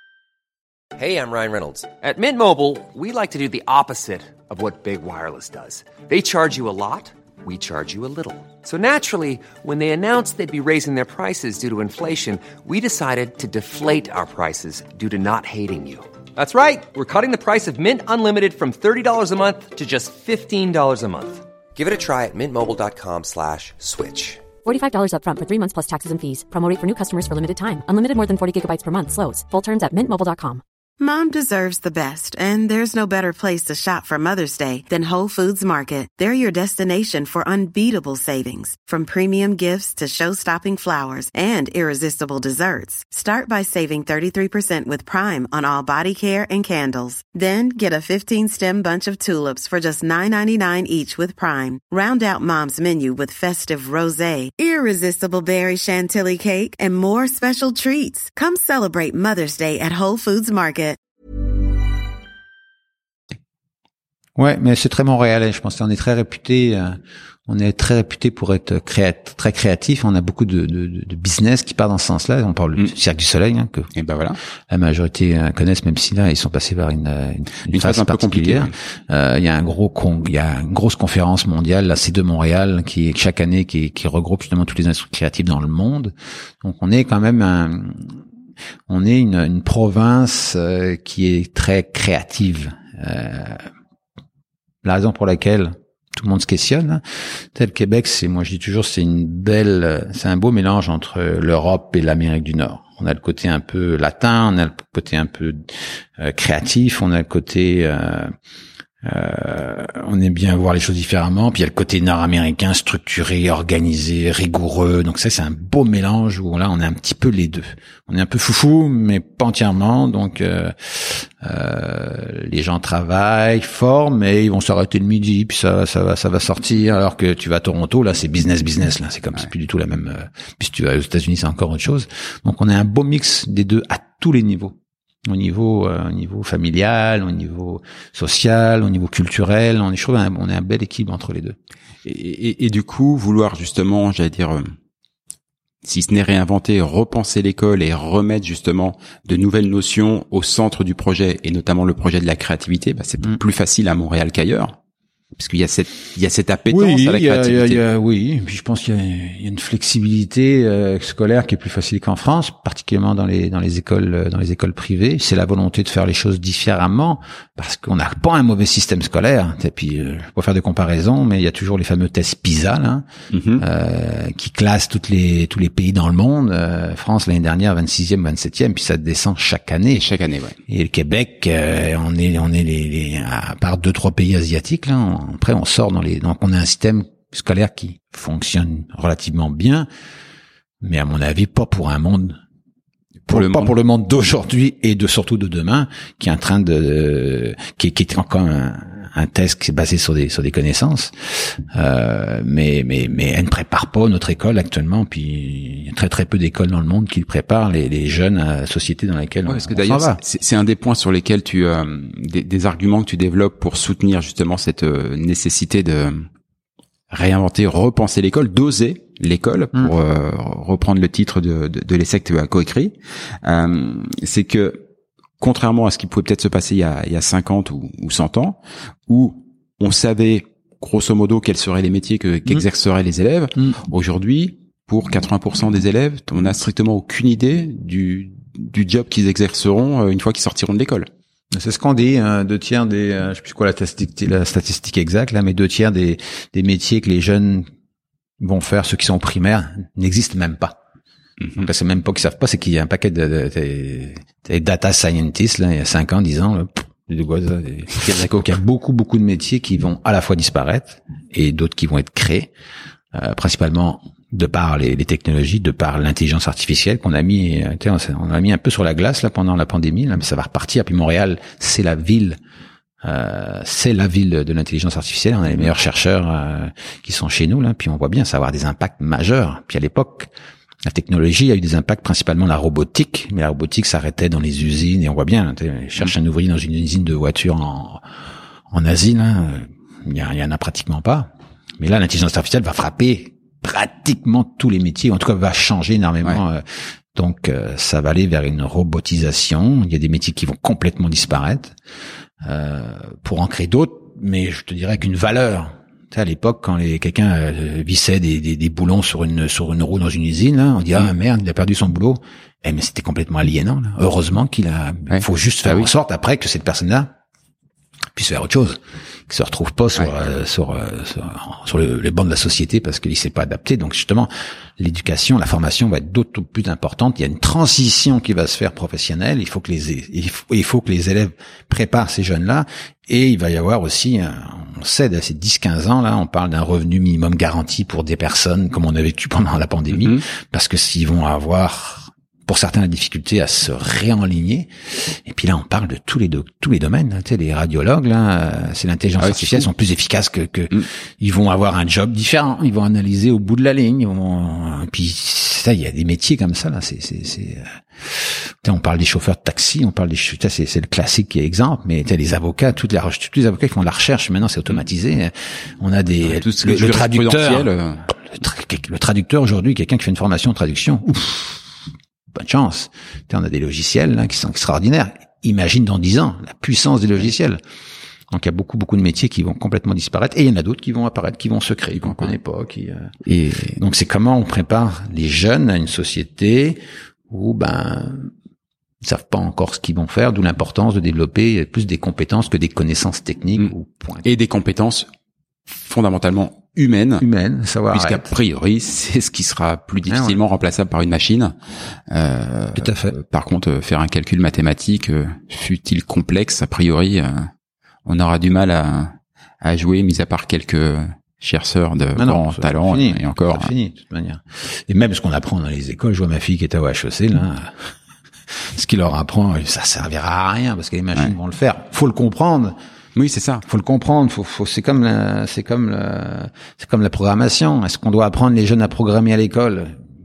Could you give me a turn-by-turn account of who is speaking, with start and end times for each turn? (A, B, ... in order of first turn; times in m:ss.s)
0:01.0-0:24.5 A
0:24.6-0:30.6 B
0:31.0-1:01.0 C
1:04.4-1:13.9 D
1:13.9-1:14.4 E
1:14.7-1:28.2 D
1:17.7-1:18.7 E
1:28.9-1:33.6 D
1:34.8-1:37.0 D
1:37.5-1:48.3 D
1:49.0-2:21.6 D
2:22.0-2:24.7 E
2:25.8-2:34.7 E
2:35.4-2:37.8 E
2:36.7-2:53.0 D
2:53.3-2:53.6 E
2:53.6-3:00.1 D
2:59.9-3:00.6 E
3:00.7-3:09.9 D
3:10.8-3:12.4 D
3:13.2-3:13.7 E
3:13.3-3:30.2 D
3:29.5-3:36.3 E
3:37.1-3:44.8 E
3:45.4-4:01.1 E
4:01.5-4:07.7 D
4:08.4-4:10.8 D
4:11.4-4:11.7 E
4:11.6-4:22.5 D
4:17.9-4:18.5 E
4:23.1-4:32.4 D
4:33.0-4:40.3 D
4:40.8-4:48.0 D
4:48.7-5:01.8 D
5:02.4-5:17.1 D
5:15.1-5:15.9 E
5:18.1-6:11.6 D
5:39.9-5:40.2 E
5:49.2-5:49.6 E
6:06.2-6:08.1 E
6:12.3-6:17.6 D
6:18.3-6:23.1 D
6:22.0-6:22.3 E
6:23.2-6:23.8 E
6:23.8-6:28.3 D
6:29.0-6:34.2 D
6:34.2-6:35.1 E
6:35.7-6:37.2 E
6:37.2-6:38.3 D
6:37.9-6:41.6 E
6:40.1-6:40.4 D
6:42.1-6:47.5 E
6:42.8-6:43.2 D
6:48.0-6:53.7 E
6:52.1-6:57.9 D
6:58.5-7:02.8 D
7:03.1-7:03.6 E
7:03.6-7:10.0 D